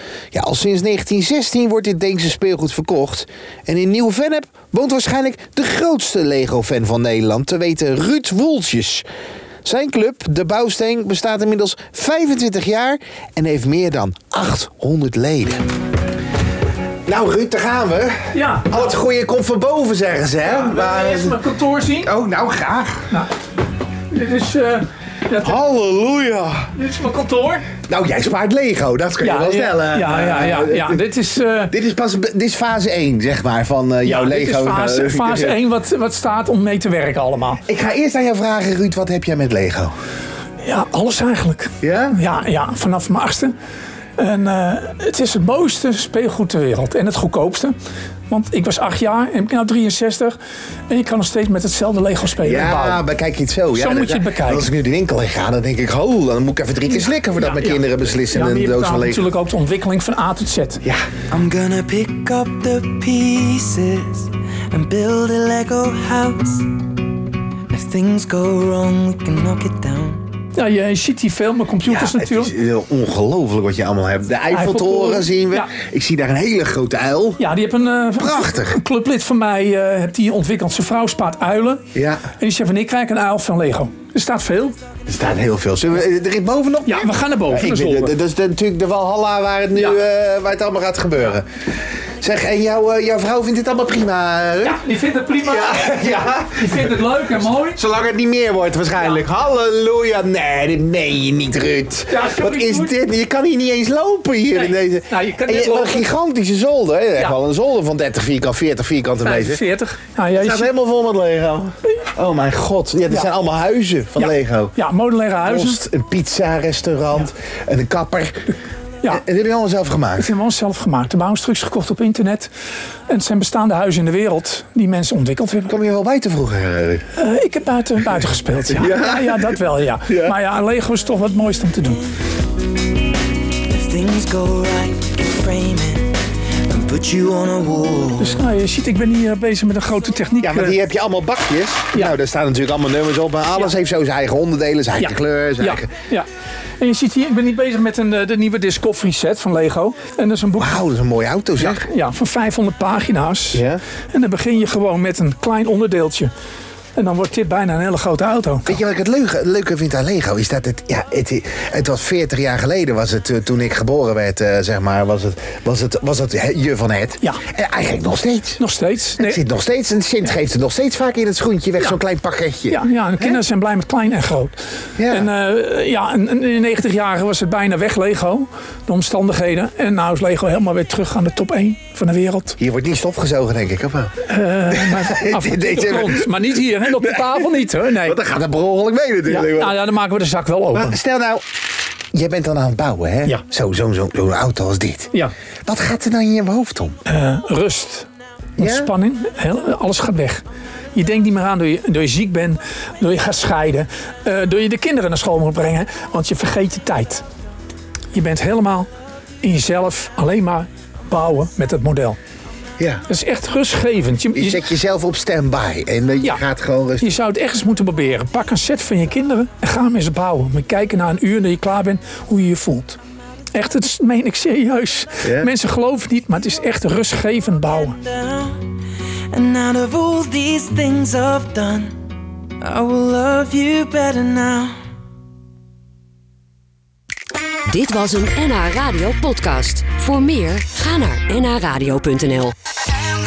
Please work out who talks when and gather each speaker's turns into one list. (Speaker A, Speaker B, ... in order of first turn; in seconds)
Speaker A: 0.3-9.0, 9.6-15.6, 17.1-21.4, 22.0-23.1, 25.4-26.7, 27.9-31.0, 31.7-35.6, 37.7-39.9, 41.8-42.2, 52.4-59.3, 71.8-77.4, 78.2-78.8, 81.9-82.2, 85.1-91.5, 92.2-94.8, 95.4-97.0, 97.7-109.6, 110.3-114.8, 115.4-118.5, 119.1-120.3, 125.7-127.0, 128.7-129.5, 130.1-130.3, 140.4-145.9, 150.6-151.8, 153.5-153.8, 158.7-168.6, 169.2-173.4, 175.0-175.3, 182.6-184.1, 184.7-186.3, 188.0-189.8, 190.7-191.4, 192.1-195.1, 195.7-197.0, 198.6-198.9, 214.3-217.1, 225.2-225.5
Speaker B: 18.3-19.0, 20.4-22.1, 24.1-25.6, 26.7-27.7, 29.2-31.8, 34.0-37.6, 40.6-43.5, 44.2-47.7, 48.3-50.4, 50.9-53.1, 53.7-54.7, 56.9-60.8, 70.5-72.5, 74.5-75.7, 77.4-84.8, 86.8-88.2, 89.7-90.0, 94.6-97.8, 99.0-99.2, 102.1-103.0, 104.5-106.1, 109.2-110.7, 114.2-115.8, 120.2-122.5, 123.1-125.8, 127.1-132.1, 138.2-140.8, 143.5-143.8, 144.9-146.2, 146.8-150.9, 151.6-156.3, 156.9-158.8, 168.6-169.4, 172.7-174.5, 175.1-182.6, 184.2-188.2, 189.2-191.0, 197.1-200.4, 200.9-207.2, 208.1-208.9, 209.4-212.2, 213.1-214.7, 217.0-223.0, 223.5-228.0
Speaker C: 61.3-66.8, 67.7-70.2, 133.7-136.1, 136.7-138.4, 228.2-228.6, 229.3-231.9, 232.6-234.8
Speaker D: 237.7-242.5